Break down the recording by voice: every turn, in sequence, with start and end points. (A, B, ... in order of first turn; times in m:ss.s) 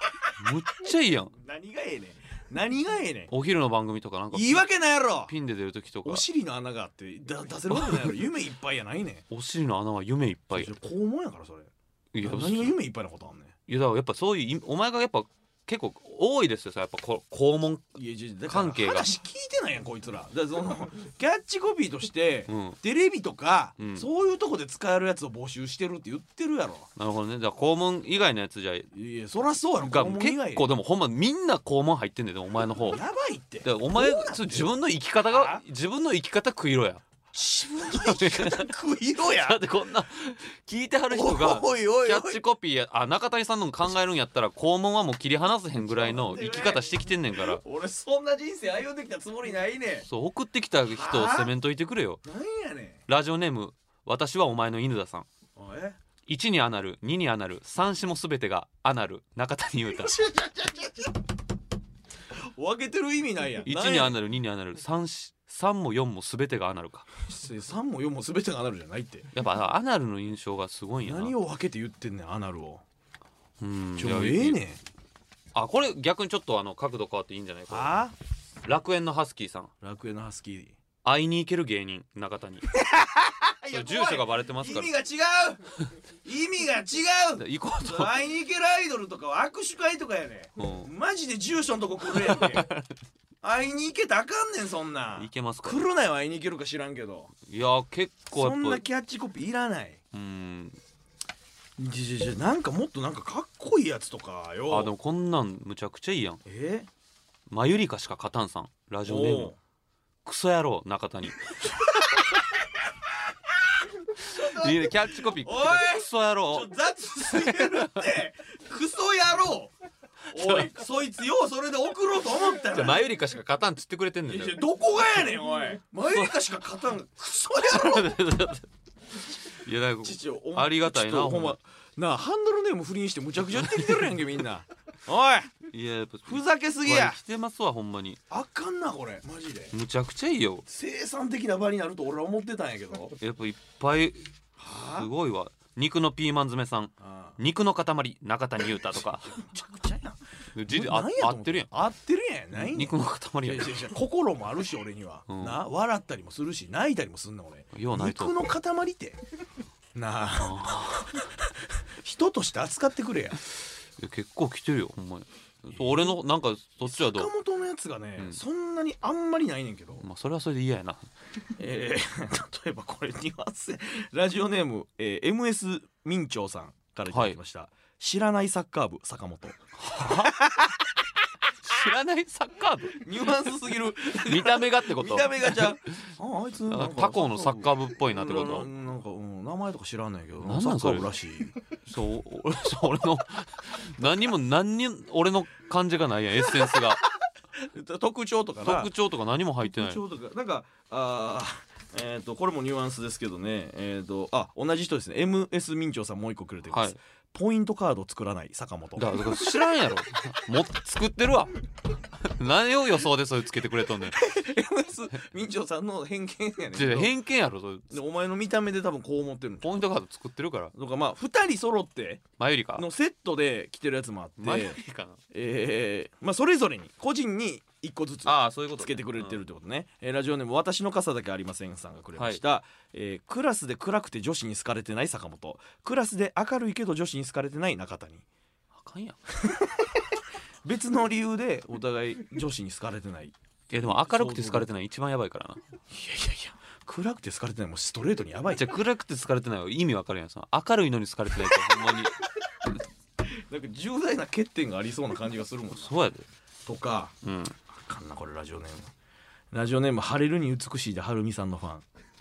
0:00.4-0:01.3 A
0:01.3-0:03.3 B
0:03.3-0:04.7 A
0:04.3-0:05.3 B
0:05.2-0:06.2 A
0:06.0-0:09.2 B
0:07.7-0:08.2 A
0:09.3-0:10.7 A
0:10.5-0:11.7 B
0:12.1-0:12.8 A
0:12.2-0:13.5 B
0:13.7-0:18.0 A
0:18.0-0:26.9 B
0:18.5-0:19.1 A
0:22.5-0:22.8 A
0:23.8-0:24.1 A
0:27.0-0:28.9 A
0:28.9-0:30.7 B
0:29.8-0:33.0 A
0:32.8-0:34.7 B
0:33.6-0:37.0 A
0:35.3-0:35.6 B
0:37.3-0:39.6 B
0:37.9-0:38.7 A
0:39.4-0:47.6 A
0:41.1-0:42.4 B
0:45.8-0:50.1 B
0:50.0-0:52.2 A
0:50.9-0:51.5 B
0:52.2-0:53.0 B
0:53.1-0:55.3 A
0:55.6-0:56.0 B
0:56.3-1:00.2 A
0:59.9-1:01.2 B
1:02.5-1:04.2 B
1:03.6-1:07.1 A
1:07.2-1:09.3 B
1:09.3-1:11.4 A
1:11.0-1:12.8 B
1:13.6-1:14.6 A
1:14.0-1:14.8 B
1:15.5-1:18.0 A
1:17.7-1:18.2 B
1:18.6-1:19.7 A
1:19.8-1:20.8 B
1:21.0-1:22.7 A
1:22.7-1:25.7 B
1:23.7-1:24.9 A
1:26.2-1:32.7 B
1:27.4-1:28.2 A
1:30.6-1:30.9 A
1:32.3-1:32.9 A
1:33.4-1:37.3 B
1:35.2-1:35.8 A
1:37.4-1:38.8 A
1:38.3-1:40.0 B
1:40.1-1:40.8 A
1:41.8-1:44.9 B
1:44.7-1:46.4 A
1:46.4-1:46.9 B
1:47.5-1:49.5 A
1:49.0-1:49.6 B
1:50.2-1:52.2 A
1:51.6-1:52.4 B
1:54.2-1:59.7 B
1:54.2-1:56.7 A
1:57.3-1:57.9 A
2:00.3-2:03.1 B
2:00.3-2:00.7 A
2:02.7-2:04.6 A
2:04.3-2:08.2 B
2:07.6-2:08.7 A
2:09.4-2:11.6 A
2:10.0-2:15.5 B
2:13.6-2:14.0 A
2:15.7-2:18.2 A
2:16.3-2:17.2 B
2:18.3-2:19.7 B
2:19.7-2:20.6 A
2:20.7-2:23.2 B
2:23.2-2:29.4 A
2:24.6-2:25.1 B
2:27.0-2:27.4 B
2:29.0-2:39.2 B
2:30.6-2:31.7 A
2:32.5-2:33.8 A
2:35.3-2:35.6 A
2:37.7-2:38.4 A
2:39.9-2:43.4 B
2:40.4-2:41.2 A
2:44.0-2:47.3 A
2:45.7-2:46.2 B
2:46.9-2:50.0 B
2:50.0-2:51.1 A
2:51.6-3:00.9 B
2:57.1-2:57.4 A
2:59.8-3:00.4 A
3:01.6-3:03.1 A
3:03.0-3:11.6 B
3:04.1-3:06.1 A
3:06.7-3:08.7 A
3:10.4-3:11.1 A
3:11.8-3:17.1 A
3:16.5-3:16.9 B
3:17.6-3:18.9 B
3:18.6-3:20.0 A
3:19.6-3:29.4 B
3:26.7-3:27.0 A
3:29.0-3:31.6 A
3:32.2-3:34.2 A
3:34.1-3:37.1 B
3:36.7-3:38.0 A
3:37.9-3:39.8 B
3:39.6-3:40.7 A
3:40.7-3:44.8 B
3:42.4-3:42.9 A
3:44.4-3:45.2 A
3:45.3-3:58.2 B
3:48.2-3:49.4 A
3:52.2-3:52.4 A
3:58.8-3:59.2 A
3:59.4-4:00.0 B
4:00.6-4:04.7 B
4:03.7-4:05.6 A
4:05.9-4:08.8 B
4:08.6-4:12.2 A
4:13.2-4:16.0 B
4:15.7-4:16.3 A
4:16.6-4:17.2 B
4:17.2-4:17.6 A
4:17.7-4:18.9 B
4:19.5-4:21.9 B